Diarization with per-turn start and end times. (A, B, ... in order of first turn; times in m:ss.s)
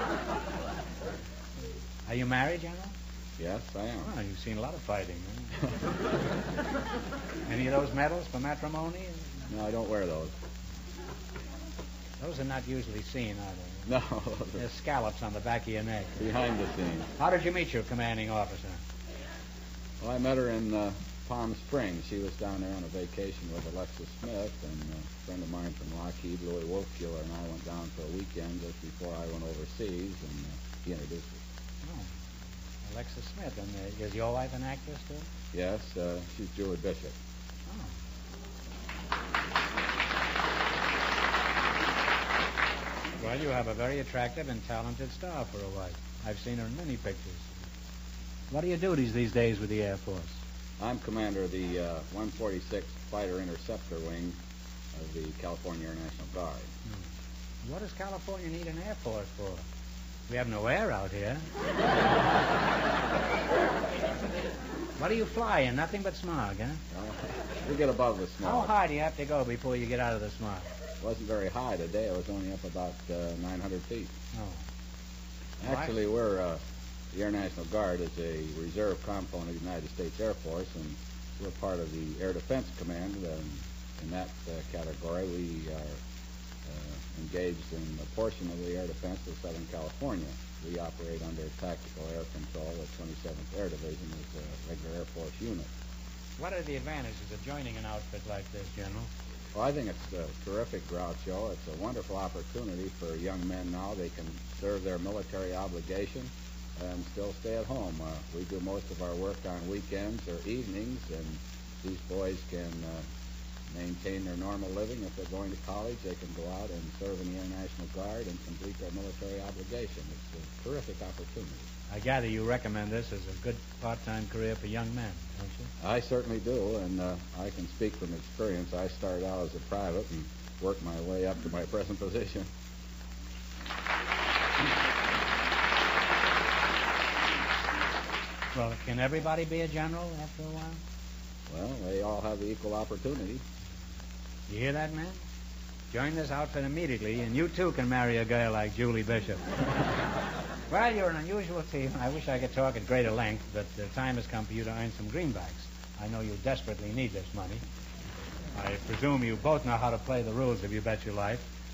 0:02.0-0:02.9 A
0:03.4-0:04.1 B
0:04.0-0:05.5 A
0:07.4-0:09.3 A
0:09.5-0:10.3 B
0:12.2-0:13.8 A
0:13.8-0:14.6 B
0:14.6-0:16.2 A
0:16.2-0:17.1 B
0:17.2-0:18.8 A
0:20.0-0:31.4 B
0:31.8-0:32.1 A
0:32.8-0:35.3 A
0:35.5-0:37.2 B
0:37.7-0:37.9 A
0:43.2-0:47.5 A
0:48.5-0:50.4 A
0:50.8-0:54.4 B
0:54.9-0:56.7 B
0:57.6-0:59.6 A
1:00.3-1:01.4 A
1:05.0-1:06.8 A
1:06.9-1:08.7 B
1:08.4-1:10.7 A
1:11.0-1:14.1 B
1:14.3-1:14.6 A
1:15.6-1:16.6 B
1:15.6-1:15.9 A
1:17.1-1:26.0 B
1:26.6-1:35.7 B
1:36.4-1:39.1 A
1:39.5-1:53.0 B
1:53.7-2:01.6 B
2:01.9-2:05.7 A
2:05.8-2:12.5 B
2:18.5-2:20.8 A
2:21.5-2:23.4 B
2:24.5-2:25.2 A
2:25.9-2:29.4 A
2:30.7-2:37.6 A
2:38.5-2:41.5 A